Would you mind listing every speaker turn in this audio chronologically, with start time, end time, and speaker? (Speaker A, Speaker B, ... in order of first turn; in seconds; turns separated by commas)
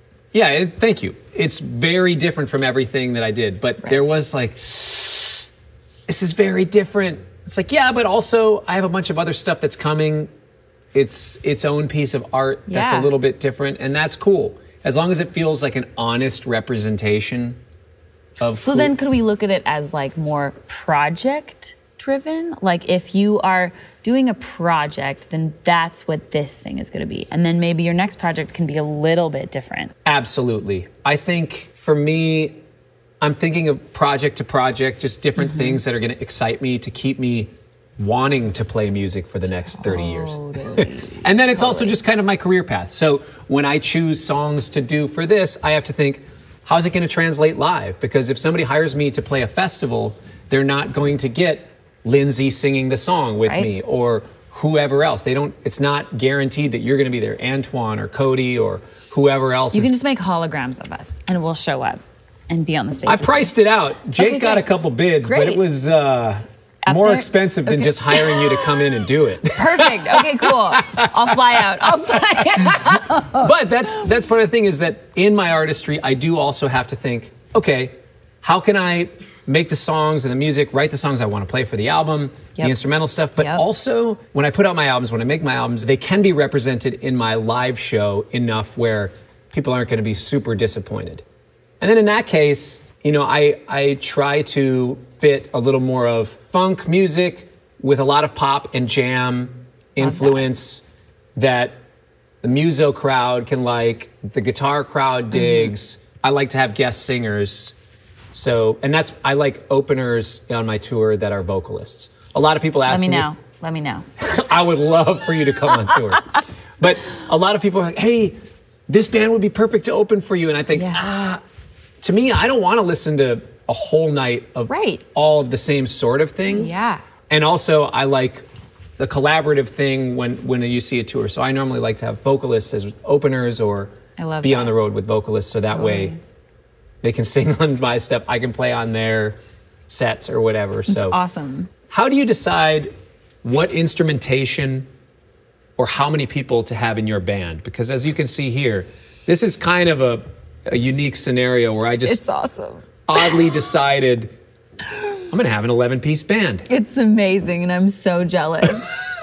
Speaker A: 0.3-5.4, Speaker A: 6.1-10.3, Speaker A: 10.9-17.6, Speaker B: 12.7-13.1, Speaker A: 18.4-18.9, Speaker B: 18.6-29.9, Speaker A: 30.1-32.6, Speaker A: 33.2-60.0, Speaker B: 35.4-35.8, Speaker B: 39.6-42.0, Speaker B: 59.7-63.5, Speaker A: 63.1-72.0, Speaker B: 64.2-64.7, Speaker B: 65.2-65.6, Speaker B: 66.9-68.6, Speaker B: 69.5-73.5, Speaker A: 72.6-91.2, Speaker B: 83.4-83.6, Speaker A: 91.8-100.8, Speaker B: 100.0-100.5, Speaker A: 101.4-101.8, Speaker A: 102.4-107.8, Speaker B: 105.3-105.7, Speaker A: 108.3-113.3, Speaker B: 112.9-114.1, Speaker A: 114.2-121.4, Speaker B: 120.7-121.1, Speaker A: 122.0-126.7, Speaker B: 124.7-125.0, Speaker B: 126.5-127.0, Speaker A: 127.3-128.4, Speaker A: 129.0-136.2, Speaker B: 134.2-134.8, Speaker B: 135.7-136.2, Speaker A: 137.0-141.2, Speaker B: 140.9-141.7, Speaker A: 141.9-144.9, Speaker A: 145.8-152.2, Speaker B: 152.1-153.3, Speaker A: 153.1-154.3, Speaker A: 155.3-156.7, Speaker B: 156.7-158.9